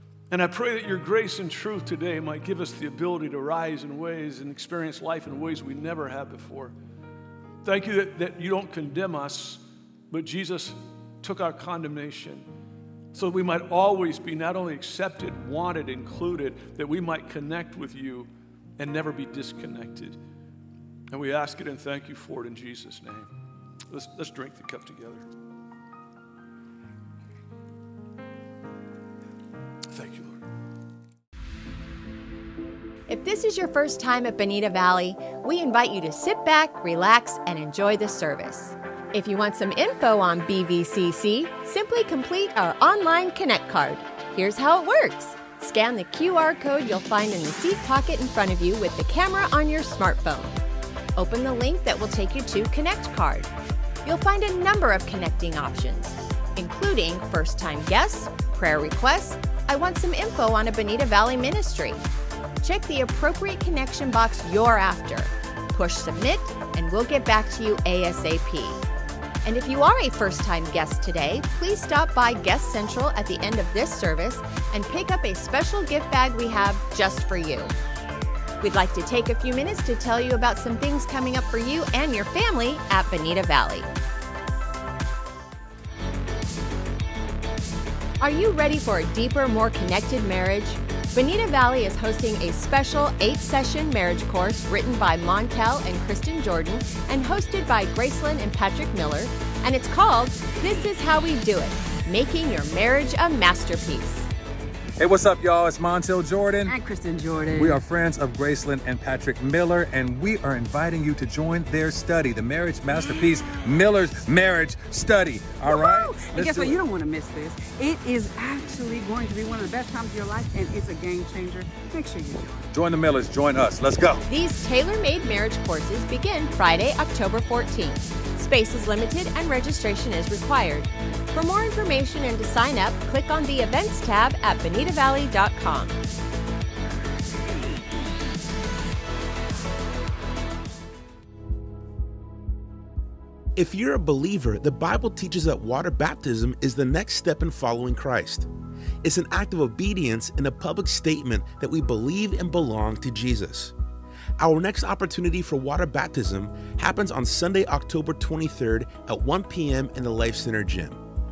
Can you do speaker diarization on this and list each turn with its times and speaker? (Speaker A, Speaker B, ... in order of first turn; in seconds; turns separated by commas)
Speaker A: 0.3-6.8, Speaker A: 7.6-12.5, Speaker A: 13.1-20.2, Speaker A: 21.1-23.3, Speaker A: 23.9-25.3, Speaker A: 29.9-30.4, Speaker B: 33.1-50.6, Speaker B: 51.2-53.5, Speaker B: 54.0-62.0, Speaker B: 62.6-68.8, Speaker B: 69.5-77.7, Speaker B: 78.6-83.9, Speaker B: 88.2-104.3, Speaker C: 105.0-106.8, Speaker D: 106.7-107.8, Speaker C: 107.5-116.8, Speaker D: 115.6-122.7, Speaker C: 122.7-124.2, Speaker B: 124.3-136.0, Speaker E: 143.6-148.5, Speaker E: 149.0-153.7, Speaker E: 154.4-161.0